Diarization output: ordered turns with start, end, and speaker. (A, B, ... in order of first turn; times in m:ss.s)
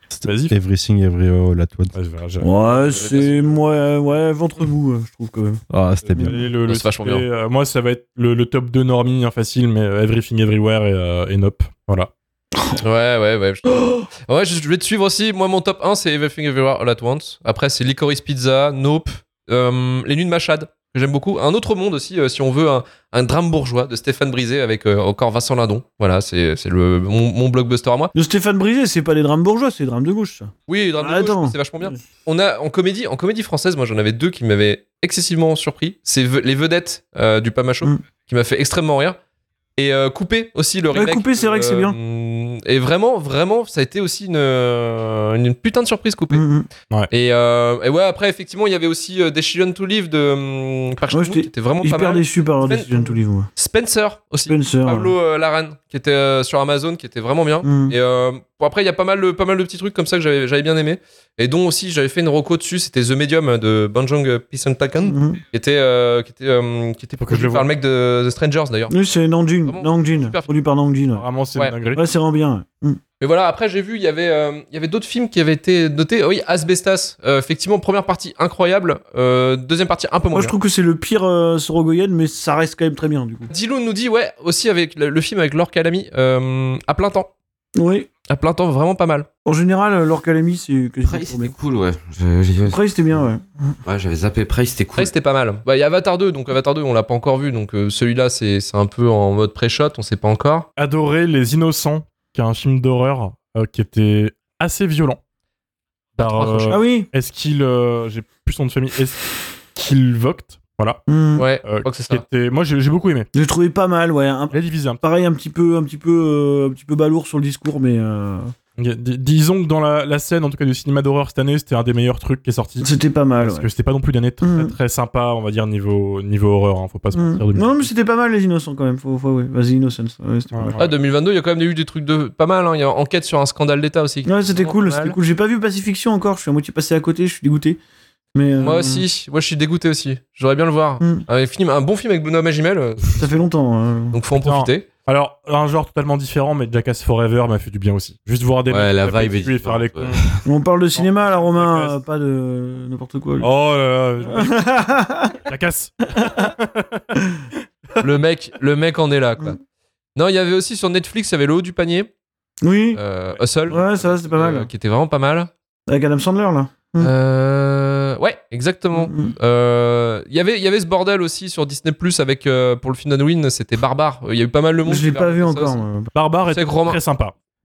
0:00.1-0:01.9 A
0:00.2-0:00.5 B
0:01.9-0:02.5 B
0:02.4-0:05.6 C
0:05.7-0:06.4 A
0:06.0-0:12.1 B
0:06.6-0:07.2 D
0:12.6-0:12.8 C
0:12.8-0:28.1 D
0:13.7-0:14.0 C
0:28.1-0:32.0 C
0:30.7-0:39.2 D
0:39.8-0:46.4 D
0:40.9-0:42.0 C
0:46.3-0:46.7 C
0:47.1-1:08.9 D
0:51.1-0:53.5 C
0:54.5-0:55.1 C
0:57.6-0:57.9 C
1:05.0-1:05.4 C
1:07.2-1:07.6 B
1:08.9-1:11.2 C
1:09.6-1:10.5 D
1:11.1-1:12.0 B
1:11.9-1:13.0 C
1:13.2-1:20.5 D
1:20.3-1:23.5 C
1:23.5-1:27.3 D
1:27.8-1:28.1 C
1:28.3-1:29.3 D
1:29.4-1:31.5 C
1:31.0-1:33.2 E
1:32.6-1:33.8 C
1:33.8-1:35.1 E
1:35.0-1:40.6 D
1:40.8-1:45.2 B
1:46.2-1:49.2 B
1:46.2-1:46.8 D
1:46.7-1:47.1 C
1:49.8-1:51.0 B
1:51.1-1:51.4 C
1:51.4-1:52.2 D
1:51.6-1:53.3 B
1:53.3-1:58.5 C
1:54.5-1:55.0 B
1:58.8-2:02.9 B
2:02.8-2:03.7 C
2:03.4-2:07.9 B
2:04.4-2:04.7 C
2:07.1-2:10.8 C
2:10.5-2:10.9 B
2:10.8-2:15.2 D
2:14.2-2:17.8 C
2:18.3-2:19.0 C
2:18.6-2:23.2 D
2:21.0-2:21.2 C
2:23.2-2:24.1 C
2:24.1-2:24.9 D
2:24.4-2:30.2 B
2:28.7-2:30.4 E
2:30.4-2:33.5 C
2:30.9-2:32.0 B
2:33.4-2:34.5 B
2:34.3-2:35.4 C
2:35.5-2:37.1 B
2:36.1-2:36.5 C
2:38.0-2:39.6 D
2:40.1-2:42.1 D
2:42.6-2:43.0 C
2:42.9-2:45.5 D
2:43.7-2:44.7 C
2:45.9-2:47.1 C
2:47.0-2:55.8 D
2:48.9-2:49.3 C
2:54.8-2:56.1 C
2:56.1-2:57.3 B
2:56.5-2:57.0 D